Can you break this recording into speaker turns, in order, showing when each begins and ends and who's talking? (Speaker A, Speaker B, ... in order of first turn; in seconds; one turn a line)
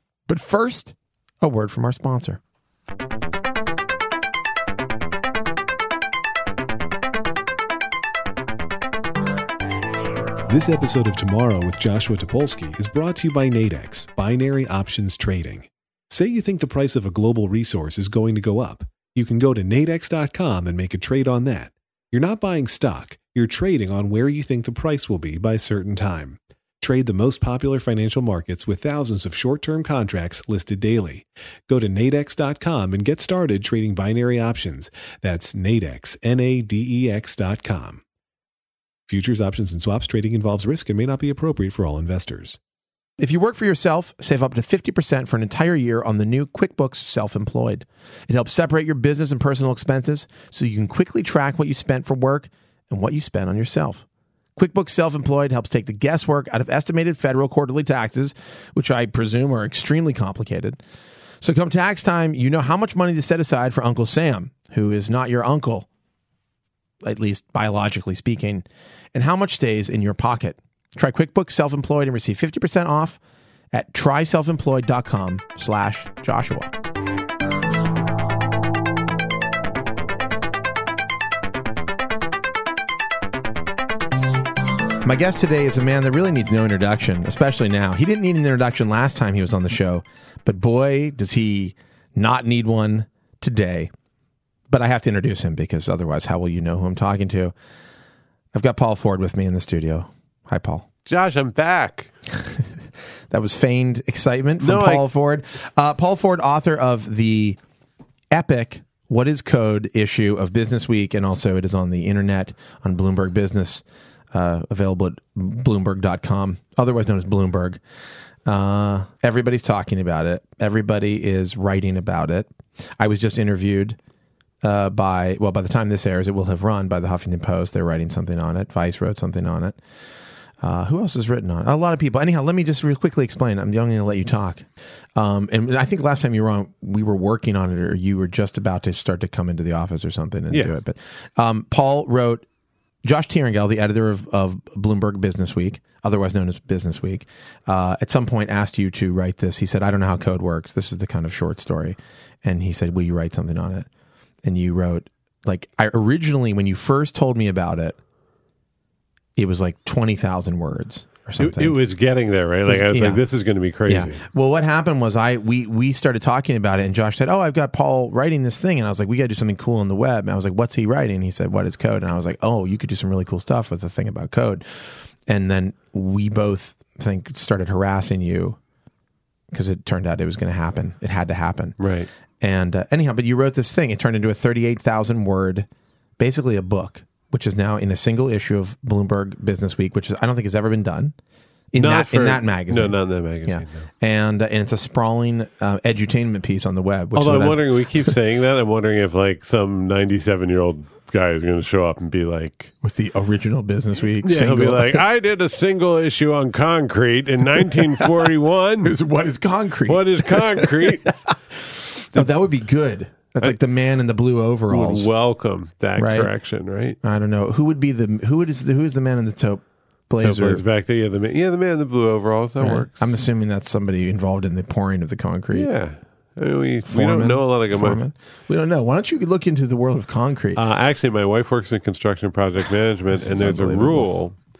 Speaker A: 0.3-2.4
Speaker B: 10.5-38.0
Speaker B: 39.1-42.6
Speaker A: 43.2-54.0
Speaker A: 54.5-60.8
Speaker A: 61.4-65.9
Speaker A: 67.0-73.2
Speaker A: 73.7-76.7
Speaker A: 85.0-93.9
Speaker A: 94.7-97.5
Speaker A: 98.5-100.8
Speaker C: 101.0-102.1
Speaker A: 103.3-107.6
Speaker C: 104.6-105.1
Speaker A: 108.3-117.8
Speaker A: 118.5-124.0
Speaker A: 124.6-129.8
Speaker A: 130.6-142.4
Speaker C: 140.5-140.8
Speaker A: 143.0-153.9
Speaker A: 154.4-158.0
Speaker A: 159.3-161.8
Speaker C: 161.4-164.2
Speaker A: 162.7-163.2
Speaker A: 163.8-178.6
Speaker A: 179.5-181.8
Speaker C: 181.8-182.1
Speaker A: 182.4-185.7
Speaker A: 186.2-191.1
Speaker A: 191.7-198.1
Speaker C: 191.7-193.9
Speaker C: 197.1-202.7
Speaker A: 202.8-205.0
Speaker C: 204.2-208.9
Speaker A: 207.7-208.1
Speaker A: 208.8-211.1
Speaker C: 209.9-211.2
Speaker A: 211.6-215.1
Speaker C: 214.7-217.0
Speaker A: 215.9-216.3
Speaker A: 217.0-220.6
Speaker C: 220.2-223.2
Speaker A: 222.6-225.7
Speaker C: 225.5-228.0
Speaker A: 226.9-230.6
Speaker C: 230.6-234.3
Speaker A: 233.1-234.1